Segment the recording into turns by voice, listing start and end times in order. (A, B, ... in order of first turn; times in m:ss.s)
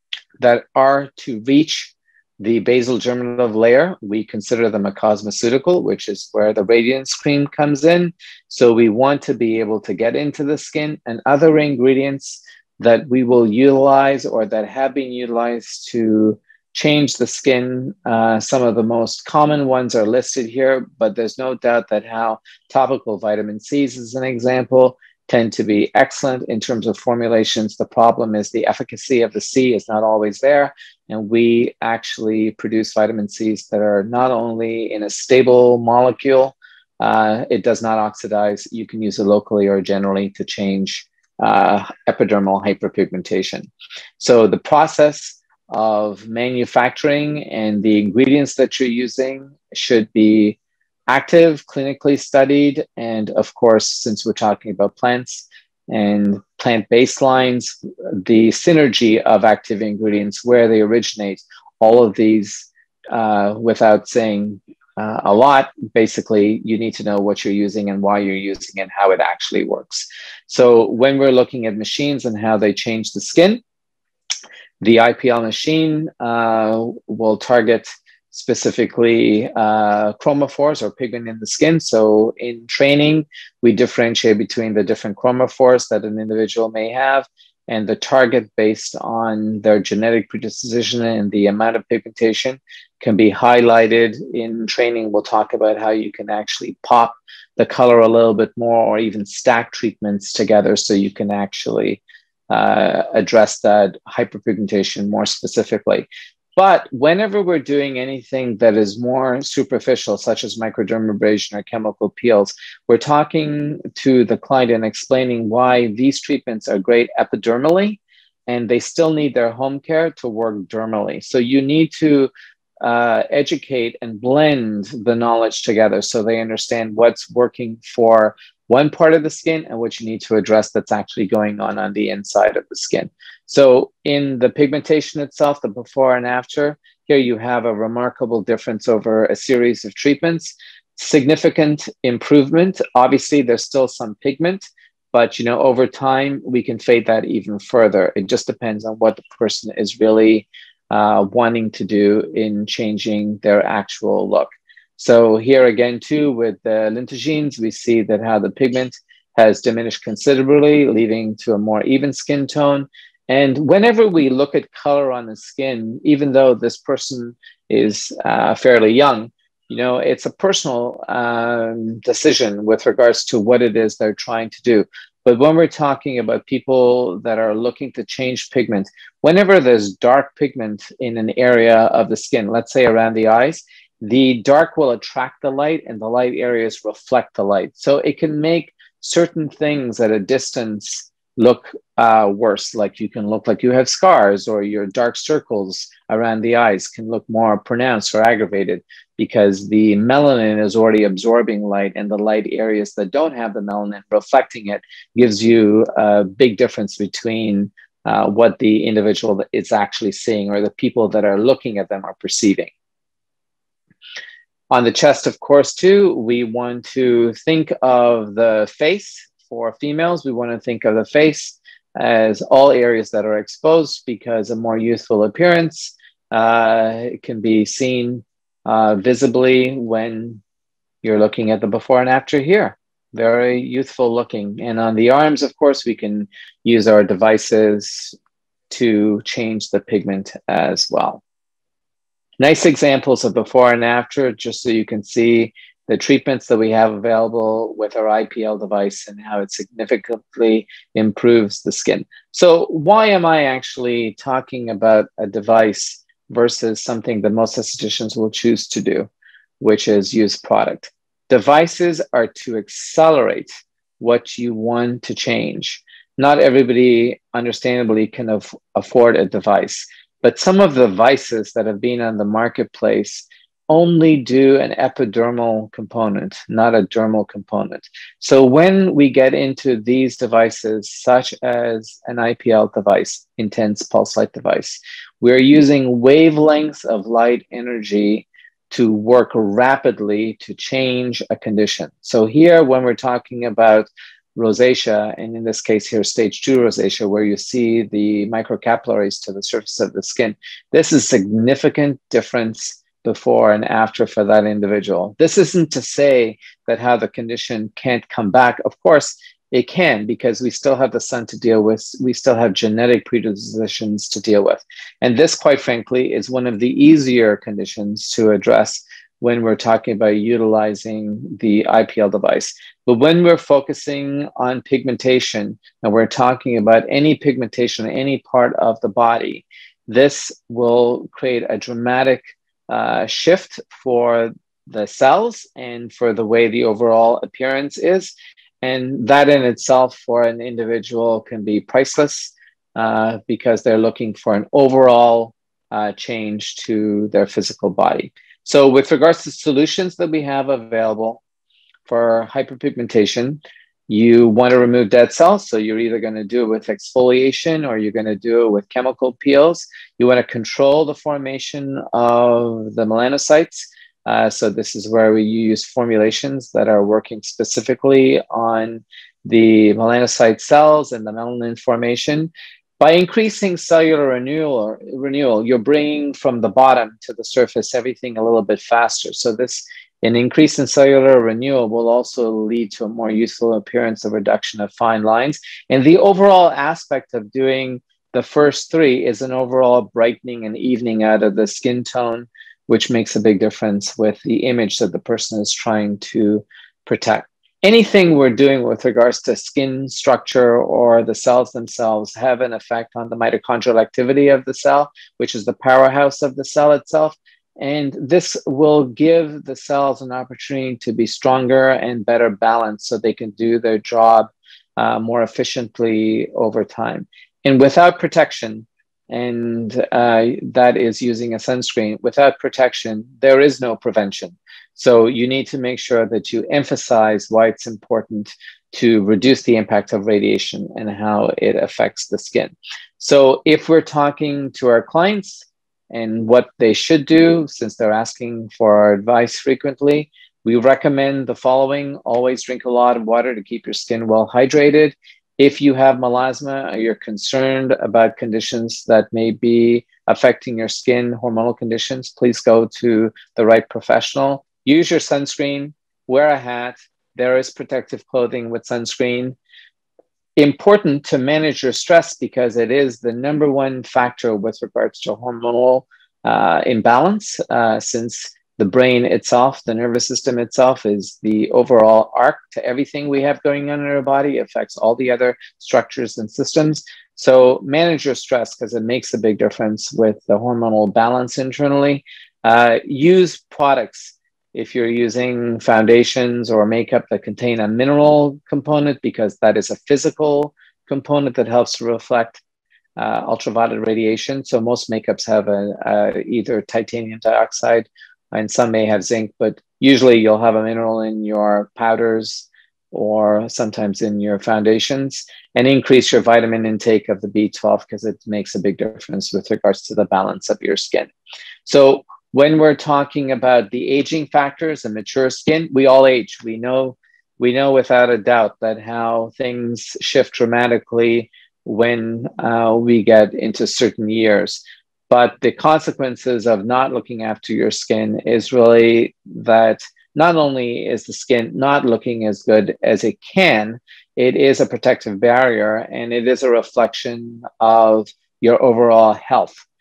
0:00.4-0:50.6 A
0:51.1-1:13.6 A
1:14.8-2:02.3 A
2:02.8-3:32.7 A
3:34.7-3:50.4 A
3:51.0-3:58.2 A
3:58.7-4:01.2 A
4:02.4-4:19.1 A
4:19.6-5:51.2 A
5:51.8-7:39.4 A
7:40.4-8:12.4 A
8:13.0-8:31.1 A
8:31.6-8:59.6 A